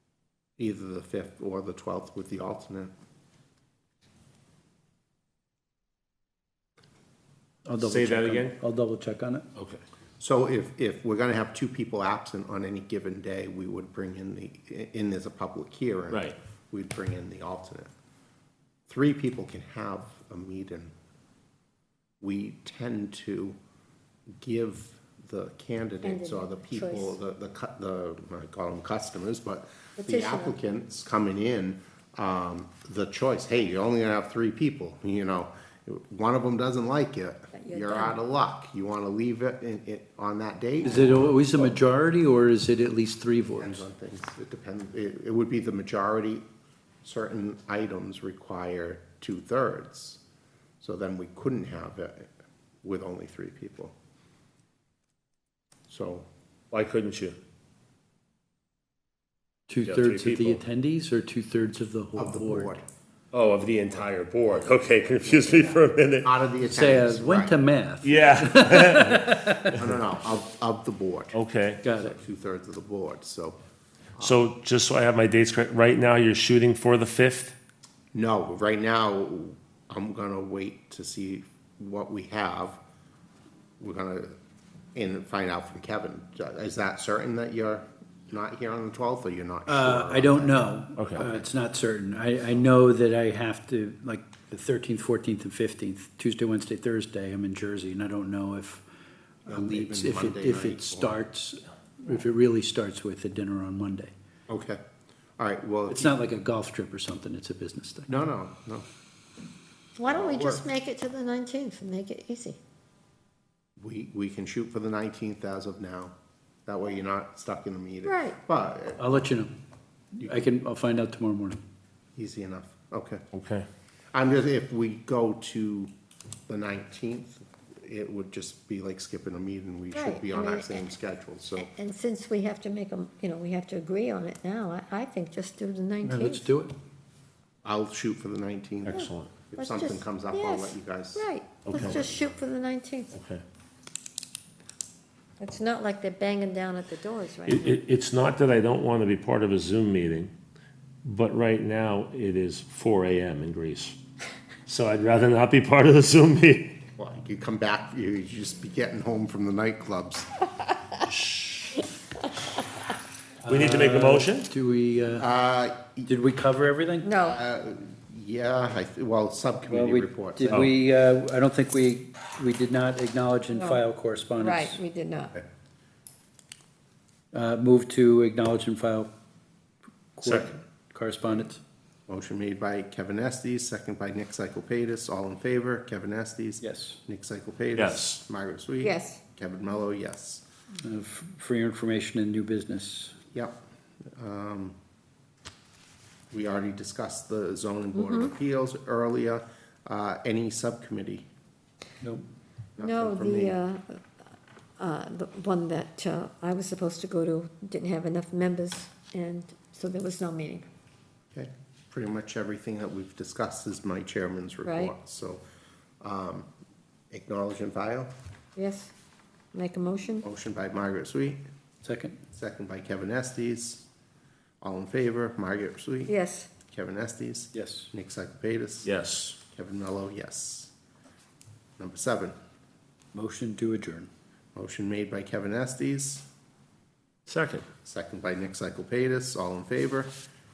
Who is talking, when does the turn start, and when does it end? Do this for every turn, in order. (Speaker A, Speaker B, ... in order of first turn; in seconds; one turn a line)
Speaker A: 0.6-2.9
Speaker B: 7.6-9.4
Speaker C: 7.8-8.6
Speaker A: 10.2-17.9
Speaker C: 16.1-16.4
Speaker A: 18.9-20.9
Speaker A: 22.2-23.6
Speaker A: 24.4-41.1
Speaker D: 26.0-27.2
Speaker D: 30.0-30.6
Speaker D: 37.5-38.2
Speaker B: 40.8-43.8
Speaker A: 43.5-46.4
Speaker A: 47.0-50.2
Speaker A: 50.8-52.3
Speaker A: 52.8-53.9
Speaker A: 55.9-56.2
Speaker C: 56.7-57.4
Speaker B: 59.7-62.8
Speaker C: 59.8-60.6
Speaker A: 62.1-62.8
Speaker C: 63.3-66.3
Speaker A: 65.1-67.6
Speaker B: 66.7-69.8
Speaker C: 68.0-69.3
Speaker A: 69.6-71.3
Speaker C: 71.3-71.8
Speaker B: 71.8-72.1
Speaker A: 72.0-73.6
Speaker A: 74.2-74.4
Speaker C: 74.2-77.5
Speaker A: 78.1-82.8
Speaker A: 83.8-84.3
Speaker A: 84.9-91.5
Speaker B: 89.7-98.8
Speaker C: 91.0-91.2
Speaker B: 99.5-104.1
Speaker A: 99.5-101.2
Speaker A: 104.5-104.8
Speaker A: 105.4-106.1
Speaker B: 105.9-108.1
Speaker A: 108.1-108.8
Speaker D: 110.0-112.6
Speaker A: 110.0-110.6
Speaker A: 113.8-116.1
Speaker A: 116.7-119.1
Speaker D: 118.0-118.4
Speaker B: 119.0-119.5
Speaker B: 120.1-121.6
Speaker A: 120.2-120.5
Speaker A: 122.2-123.2
Speaker C: 123.3-123.7
Speaker A: 124.1-125.9
Speaker A: 126.5-131.7
Speaker D: 129.9-130.8
Speaker D: 131.6-136.5
Speaker B: 136.0-136.7
Speaker A: 137.6-142.3
Speaker C: 138.8-139.3
Speaker D: 138.9-143.1
Speaker C: 141.7-142.0
Speaker C: 143.1-143.4
Speaker D: 145.4-147.8
Speaker C: 147.4-150.3
Speaker C: 151.0-154.0
Speaker C: 154.7-156.8
Speaker A: 156.9-160.3
Speaker C: 161.1-161.8
Speaker B: 163.4-165.3
Speaker C: 163.4-164.5
Speaker A: 165.2-166.1
Speaker B: 166.1-167.1
Speaker D: 167.0-167.4
Speaker A: 167.2-170.7
Speaker B: 169.7-174.8
Speaker D: 173.5-173.8
Speaker D: 174.4-175.3
Speaker B: 177.3-179.1
Speaker B: 180.2-181.6
Speaker C: 180.2-180.5
Speaker A: 182.1-190.4
Speaker B: 186.6-187.0
Speaker C: 187.7-188.2
Speaker D: 188.8-189.2
Speaker B: 190.8-193.2
Speaker A: 194.2-194.8
Speaker A: 196.3-201.3
Speaker D: 197.9-198.3
Speaker A: 202.8-203.6
Speaker D: 202.8-204.0
Speaker D: 204.8-210.7
Speaker A: 211.3-215.4
Speaker D: 214.6-214.9
Speaker A: 216.0-216.5
Speaker A: 217.1-218.1
Speaker D: 218.6-218.9
Speaker D: 219.5-220.2
Speaker A: 220.2-221.4
Speaker B: 221.8-222.2
Speaker A: 222.3-223.8
Speaker A: 224.6-226.1
Speaker D: 226.1-226.5
Speaker A: 226.7-228.9
Speaker B: 227.5-227.9
Speaker C: 228.8-229.4
Speaker A: 229.4-230.7
Speaker A: 231.8-232.3
Speaker B: 233.1-234.1
Speaker A: 234.5-236.2
Speaker C: 237.3-237.7
Speaker A: 237.8-240.1